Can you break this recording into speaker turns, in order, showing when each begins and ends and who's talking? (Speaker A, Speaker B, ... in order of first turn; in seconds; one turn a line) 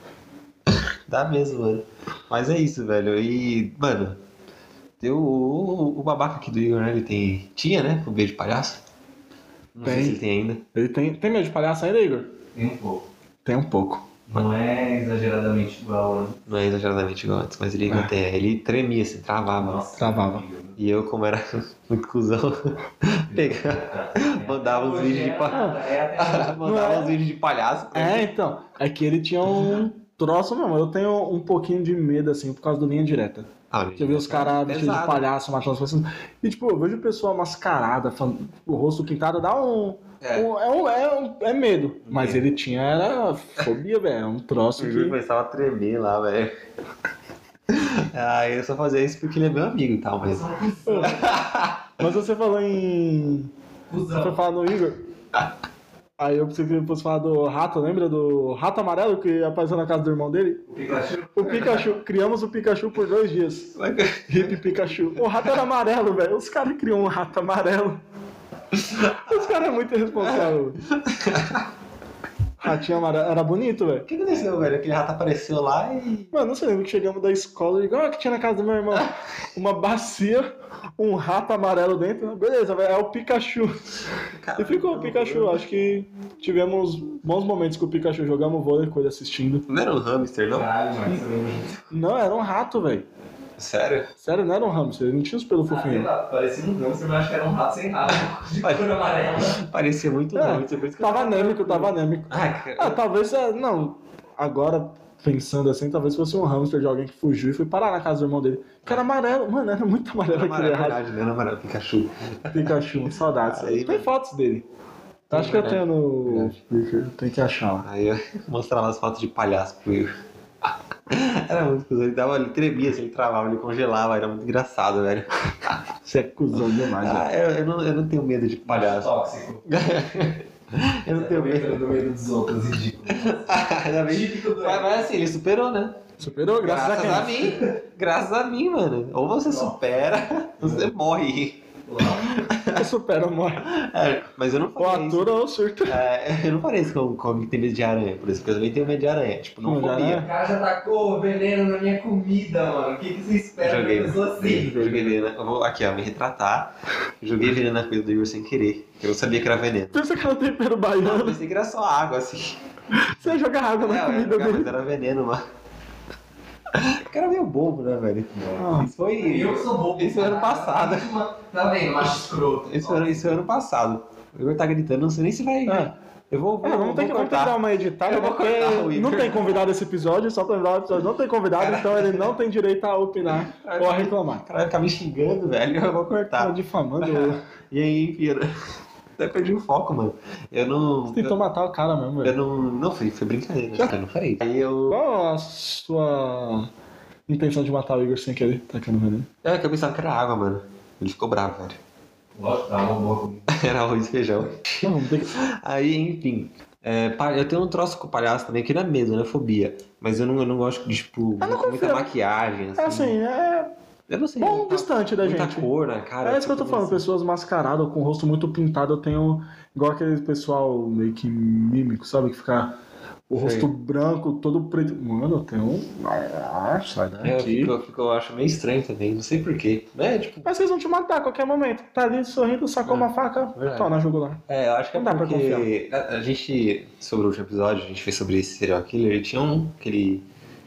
Speaker A: 0.7-4.2
Speaker A: 5.0-8.8
Speaker A: 9.8-10.7
Speaker B: 9.8-10.2
Speaker B: 10.7-12.3
Speaker C: 12.5-13.0
Speaker B: 13.4-14.1
Speaker C: 14.3-16.4
Speaker A: 16.5-19.9
Speaker C: 19.6-20.8
Speaker B: 20.0-20.4
Speaker A: 20.8-28.3
Speaker C: 23.3-26.7
Speaker B: 25.5-25.8
Speaker B: 26.6-27.2
Speaker B: 27.9-45.2
Speaker A: 33.7-35.3
Speaker A: 40.2-40.5
Speaker A: 42.1-42.4
Speaker A: 44.8-46.5
Speaker A: 47.7-50.5
Speaker C: 50.2-51.3
Speaker B: 50.9-51.2
Speaker A: 51.0-51.9
Speaker B: 52.0-53.5
Speaker C: 53.9-54.4
Speaker B: 54.1-55.0
Speaker B: 56.2-60.7
Speaker C: 60.7-61.8
Speaker B: 61.4-63.8
Speaker A: 63.8-64.6
Speaker B: 64.3-68.0
Speaker A: 68.8-69.5
Speaker B: 69.2-70.8
Speaker A: 70.2-71.6
Speaker B: 72.6-74.1
Speaker A: 74.1-76.3
Speaker B: 76.3-83.8
Speaker A: 84.2-85.6
Speaker B: 84.6-89.7
Speaker A: 89.7-90.7
Speaker C: 90.5-91.8
Speaker B: 91.9-93.1
Speaker A: 93.6-94.1
Speaker B: 94.2-96.1
Speaker C: 95.7-99.6
Speaker A: 98.6-103.0
Speaker B: 100.3-111.0
Speaker A: 110.3-112.8
Speaker B: 112.5-114.7
Speaker A: 113.4-114.1
Speaker A: 115.3-116.6
Speaker B: 115.3-117.9
Speaker A: 117.8-120.2
Speaker A: 121.1-125.8
Speaker B: 126.0-127.2
Speaker A: 126.5-129.1
Speaker C: 128.7-129.6
Speaker A: 129.7-131.8
Speaker C: 131.1-135.1
Speaker A: 133.1-136.0
Speaker B: 136.2-137.5
Speaker A: 136.6-142.8
Speaker C: 139.4-139.9
Speaker C: 140.6-140.9
Speaker C: 141.9-142.3
Speaker B: 142.8-143.7
Speaker A: 143.6-150.3
Speaker B: 144.8-146.0
Speaker B: 149.6-150.3
Speaker C: 150.2-154.9
Speaker A: 153.6-160.0
Speaker B: 154.4-155.2
Speaker B: 159.9-161.4
Speaker A: 161.0-162.6
Speaker B: 162.9-164.7
Speaker A: 163.8-165.4
Speaker A: 166.7-171.2
Speaker B: 168.6-168.9
Speaker C: 169.2-173.3
Speaker A: 172.7-179.7
Speaker B: 175.7-175.9
Speaker B: 176.6-184.4
Speaker A: 181.6-182.3
Speaker A: 183.3-188.5
Speaker B: 186.4-187.4
Speaker A: 189.2-191.3
Speaker B: 191.1-192.3
Speaker A: 192.2-195.0
Speaker B: 194.9-196.7
Speaker B: 197.3-199.3
Speaker A: 199.4-201.8
Speaker C: 202.3-203.5
Speaker A: 203.5-213.2
Speaker B: 204.8-205.3
Speaker B: 211.4-212.1
Speaker B: 212.8-213.7
Speaker A: 214.1-217.0
Speaker B: 214.4-215.7
Speaker B: 216.2-222.7
Speaker B: 223.3-227.8
Speaker A: 223.4-223.7
Speaker A: 227.2-230.5
Speaker B: 230.4-234.4
Speaker A: 232.8-233.9
Speaker A: 234.5-240.2
Speaker B: 234.9-235.7